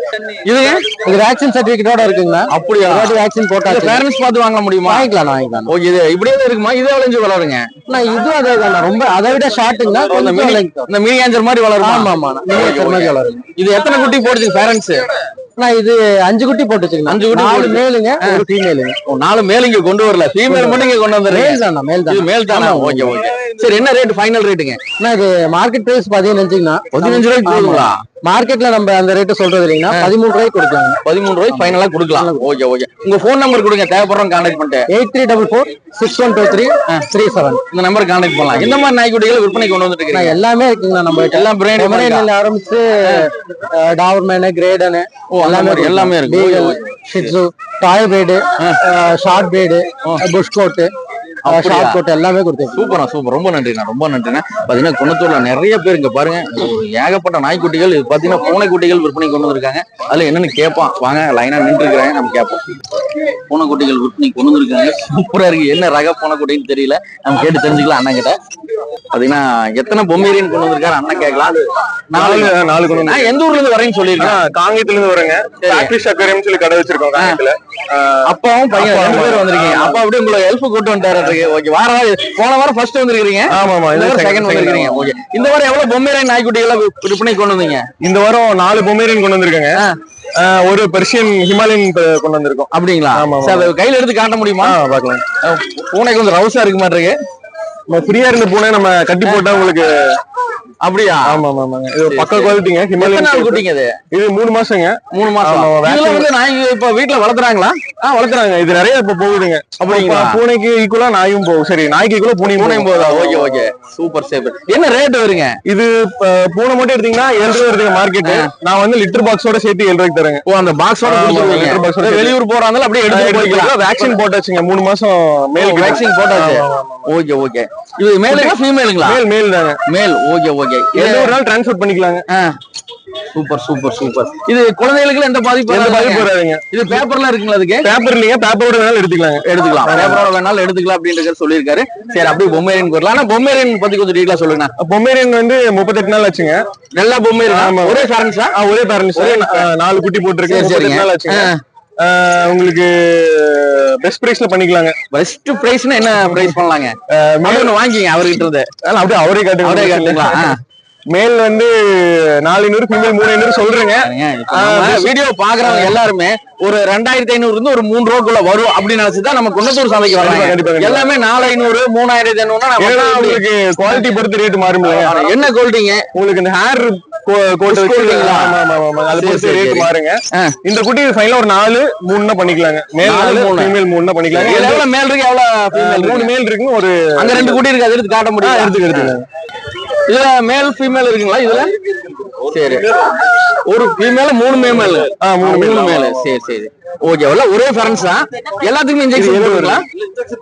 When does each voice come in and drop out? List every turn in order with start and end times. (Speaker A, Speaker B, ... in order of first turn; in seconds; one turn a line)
Speaker A: 0.4-0.8
Speaker B: 1.0-4.0
Speaker A: 2.5-5.1
Speaker B: 4.8-5.7
Speaker A: 5.7-7.7
Speaker B: 7.9-10.9
Speaker A: 9.9-15.0
Speaker B: 11.8-13.4
Speaker B: 15.6-18.9
Speaker A: 17.1-18.4
Speaker A: 19.1-24.8
Speaker B: 20.5-23.2
Speaker B: 25.0-32.5
Speaker A: 26.9-28.0
Speaker A: 31.0-34.9
Speaker B: 34.9-37.6
Speaker A: 37.7-40.4
Speaker B: 40.1-50.9
Speaker A: 41.3-42.3
Speaker A: 45.3-47.3
Speaker A: 51.4-52.0
Speaker B: 51.5-53.0
Speaker A: 52.7-62.7
Speaker A: 63.5-68.4
Speaker A: 69.1-74.4
Speaker C: 72.1-73.4
Speaker C: 74.2-80.0
Speaker A: 75.6-75.9
Speaker A: 78.3-87.9
Speaker C: 83.5-85.1
Speaker C: 88.0-89.8
Speaker C: 90.4-93.7
Speaker A: 92.7-94.8
Speaker C: 94.6-95.2
Speaker A: 95.4-97.2
Speaker C: 97.9-100.2
Speaker A: 100.8-101.4
Speaker C: 101.2-106.3
Speaker A: 102.1-103.9
Speaker A: 105.1-108.0
Speaker C: 108.1-113.5
Speaker A: 109.8-110.4
Speaker A: 112.5-115.6
Speaker C: 115.7-120.4
Speaker A: 118.2-118.5
Speaker A: 120.5-124.2
Speaker C: 121.0-122.3
Speaker C: 123.1-127.1
Speaker A: 125.6-129.2
Speaker C: 128.3-129.8
Speaker A: 129.9-131.4
Speaker C: 130.9-132.2
Speaker A: 133.3-137.9
Speaker C: 135.7-136.8
Speaker C: 137.8-140.2
Speaker A: 139.4-144.7
Speaker C: 144.8-146.6
Speaker A: 146.9-148.6
Speaker C: 147.5-155.0
Speaker A: 149.2-149.7
Speaker A: 150.4-151.6
Speaker A: 155.1-158.7
Speaker C: 156.2-156.6
Speaker C: 157.1-157.7
Speaker C: 158.8-160.5
Speaker A: 159.6-160.6
Speaker C: 161.1-165.9
Speaker A: 164.0-173.4
Speaker C: 170.2-171.1
Speaker C: 172.8-175.4
Speaker A: 174.8-176.1
Speaker C: 176.1-184.8
Speaker A: 177.7-178.6
Speaker A: 179.1-180.6
Speaker A: 183.0-183.8
Speaker A: 184.3-186.3
Speaker C: 185.7-187.6
Speaker A: 187.2-189.2
Speaker C: 188.4-189.2
Speaker A: 190.1-191.7
Speaker A: 192.5-192.9
Speaker A: 193.7-199.8
Speaker C: 195.2-196.1
Speaker C: 199.1-199.8